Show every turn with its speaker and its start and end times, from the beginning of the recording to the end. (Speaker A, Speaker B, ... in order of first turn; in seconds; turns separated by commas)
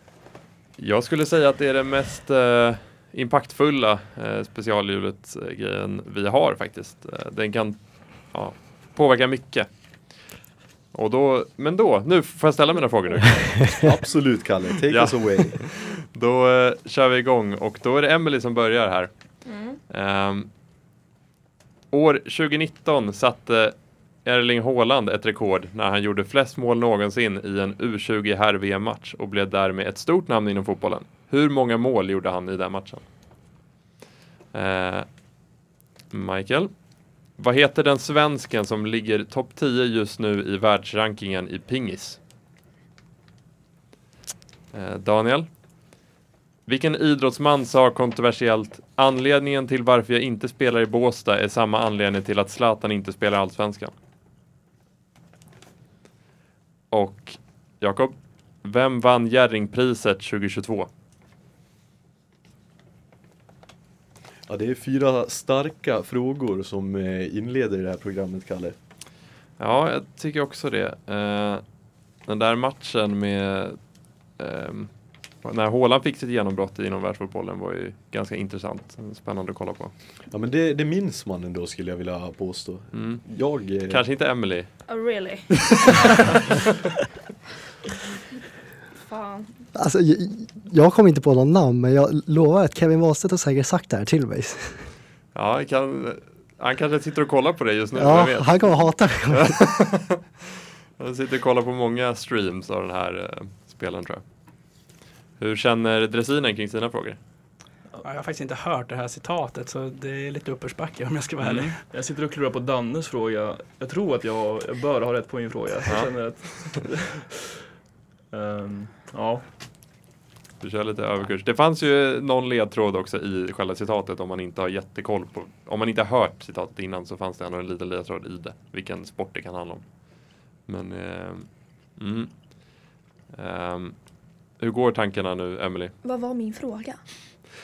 Speaker A: 0.8-10.1, Speaker A: 10.9-13.6, Speaker B: 13.8-15.6, Speaker A: 14.9-19.4, Speaker C: 19.4-19.8, Speaker A: 19.9-20.5, Speaker A: 21.9-33.1, Speaker A: 34.5-35.2, Speaker A: 36.1-36.7, Speaker A: 37.3-42.2, Speaker A: 44.7-45.5, Speaker A: 46.7-53.9, Speaker A: 56.9-60.9, Speaker B: 64.5-68.8, Speaker A: 69.6-71.6, Speaker A: 72.3-73.8, Speaker A: 74.3-79.9, Speaker B: 80.3-84.0, Speaker A: 82.9-83.3, Speaker A: 83.9-84.7, Speaker C: 84.9-85.9, Speaker C: 88.9-89.5, Speaker D: 89.8-94.9, Speaker A: 95.3-100.2, Speaker D: 98.0-99.6, Speaker A: 101.0-104.2, Speaker A: 105.4-107.2, Speaker E: 108.0-111.8, Speaker A: 111.4-111.7, Speaker F: 111.5-117.3, Speaker A: 115.9-116.7, Speaker F: 118.3-119.5, Speaker A: 120.6-135.9, Speaker C: 136.0-137.0